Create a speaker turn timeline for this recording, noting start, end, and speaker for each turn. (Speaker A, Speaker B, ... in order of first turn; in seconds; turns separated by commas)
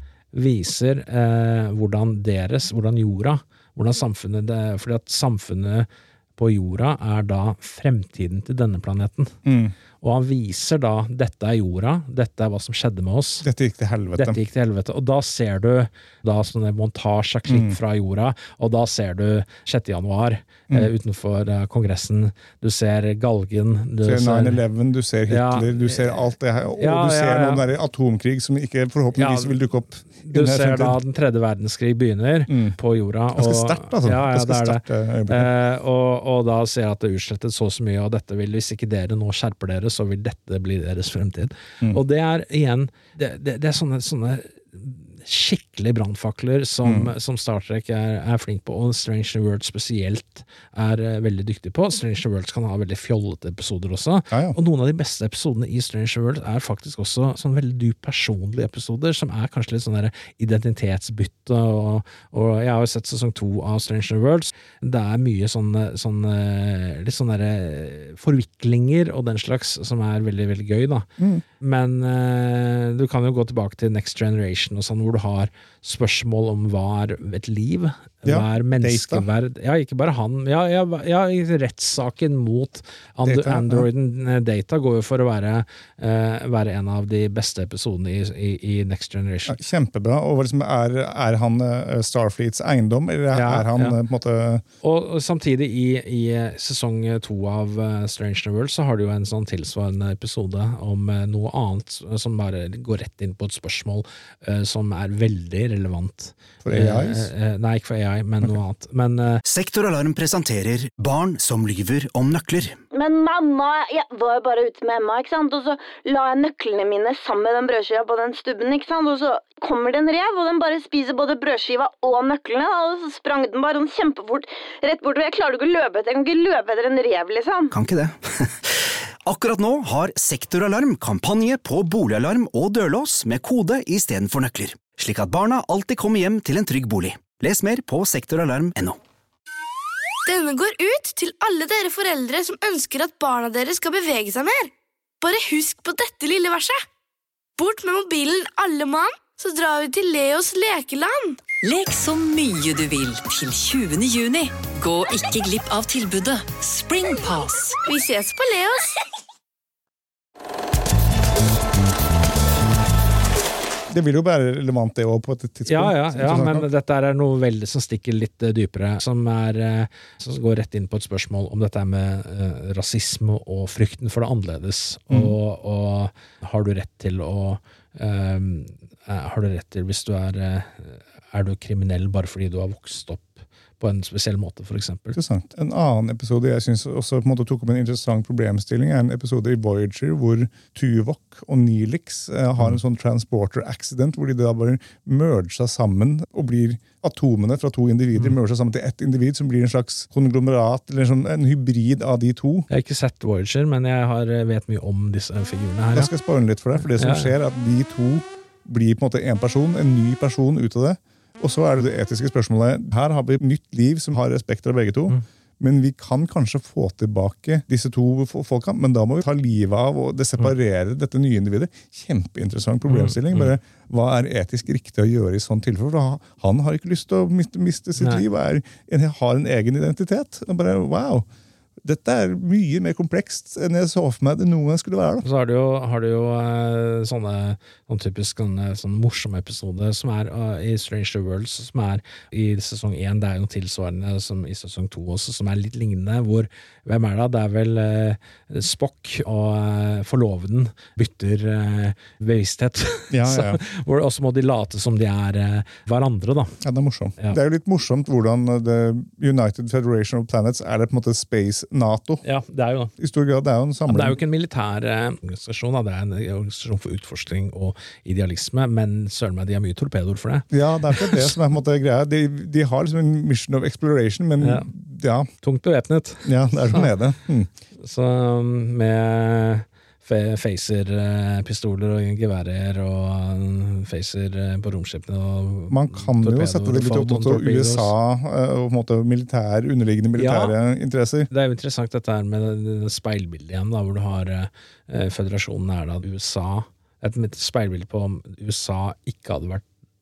Speaker A: 0.3-9.3, Speaker B: 9.4-9.7, Speaker A: 10.0-13.4, Speaker B: 13.4-14.4, Speaker A: 14.1-24.6, Speaker B: 17.5-17.8, Speaker B: 24.0-31.0, Speaker A: 25.3-26.2, Speaker A: 26.8-27.6, Speaker A: 29.2-29.6, Speaker A: 30.2-71.1, Speaker B: 32.5-32.8, Speaker B: 33.3-35.5, Speaker B: 46.8-47.1, Speaker B: 54.3-54.6, Speaker B: 71.2-71.4, Speaker A: 71.6-89.6, Speaker B: 78.2-79.3, Speaker B: 83.2-83.9, Speaker B: 89.5-94.6, Speaker A: 93.3-94.0, Speaker A: 94.8-109.4, Speaker B: 106.6-107.3, Speaker C: 109.5-112.8, Speaker D: 112.9-127.7, Speaker C: 127.7-128.7, Speaker C: 129.2-139.0, Speaker E: 140.3-146.8, Speaker E: 147.6-151.4, Speaker F: 151.6-157.8, Speaker E: 157.8-158.9, Speaker B: 163.9-166.7, Speaker A: 165.7-185.2, Speaker B: 175.1-175.3, Speaker B: 185.1-202.7, Speaker A: 202.7-206.1, Speaker B: 205.9-231.3, Speaker A: 207.0-207.3, Speaker A: 222.9-223.5, Speaker A: 228.0-228.2, Speaker B: 231.8-235.2, Speaker A: 235.2-256.5, Speaker B: 253.1-253.6, Speaker B: 256.6-262.2, Speaker A: 262.2-262.9, Speaker B: 263.0-264.2, Speaker A: 263.9-271.3, Speaker B: 270.5-275.3, Speaker A: 274.4-274.7, Speaker A: 275.4-276.9, Speaker B: 276.2-277.5, Speaker A: 277.8-287.9, Speaker B: 285.7-291.3, Speaker A: 290.2-290.5, Speaker A: 291.3-299.6